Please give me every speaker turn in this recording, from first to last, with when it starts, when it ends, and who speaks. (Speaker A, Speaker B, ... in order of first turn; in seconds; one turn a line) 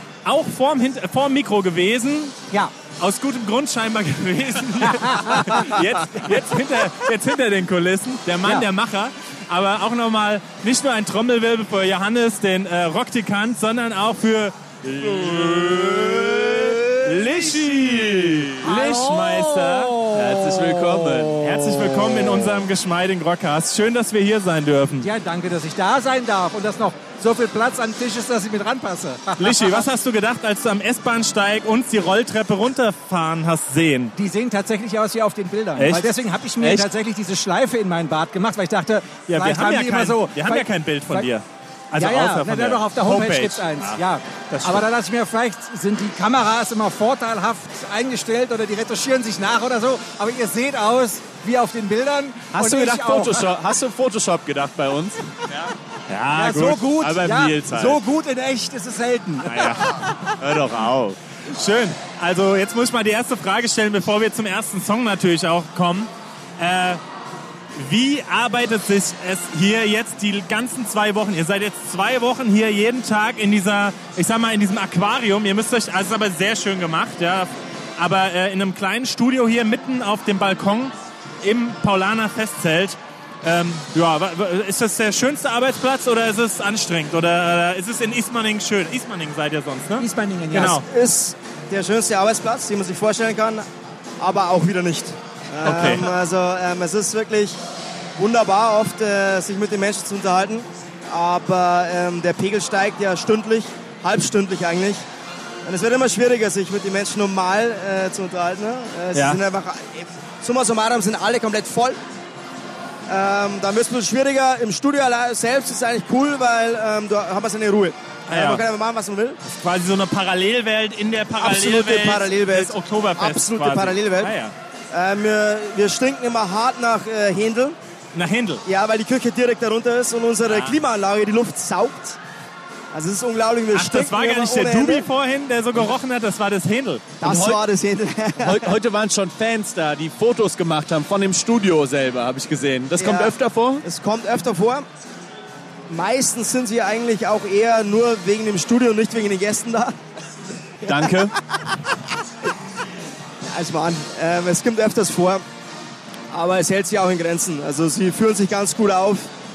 Speaker A: 0.2-16.5
Speaker B: 5.0-5.6
Speaker B: 8.4-8.7
Speaker C: 14.8-19.0
Speaker A: 17.0-20.1
Speaker B: 18.6-21.3
Speaker C: 20.1-22.5
Speaker A: 21.3-25.1
Speaker B: 25.0-29.8
Speaker A: 29.4-34.1
Speaker B: 34.1-41.3
Speaker A: 35.7-36.9
Speaker A: 39.3-44.9
Speaker B: 41.9-53.5
Speaker C: 52.5-55.7
Speaker A: 56.1-57.0
Speaker B: 56.3-59.9
Speaker C: 57.0-58.0
Speaker A: 59.4-60.0
Speaker C: 60.4-61.2
Speaker A: 61.5-67.0
Speaker A: 67.7-90.8
Speaker B: 90.0-90.8
Speaker D: 90.5-93.7
Speaker D: 94.2-97.6
Speaker A: 95.6-96.1
Speaker D: 98.2-105.0
Speaker D: 105.7-112.0
Speaker A: 109.1-109.4
Speaker D: 113.1-119.4
Speaker A: 118.3-118.6
Speaker A: 119.4-124.5
Speaker D: 121.4-124.3
Speaker D: 124.9-127.8
Speaker A: 128.1-128.6
Speaker D: 128.6-132.2
Speaker A: 130.4-130.8
Speaker D: 132.9-135.1
Speaker A: 133.7-137.1
Speaker C: 137.2-137.6
Speaker D: 137.2-138.7
Speaker C: 138.4-143.8
Speaker D: 143.0-144.8
Speaker D: 145.9-149.9
Speaker D: 150.8-151.8
Speaker C: 150.8-151.3
Speaker D: 153.5-155.4
Speaker D: 156.3-159.3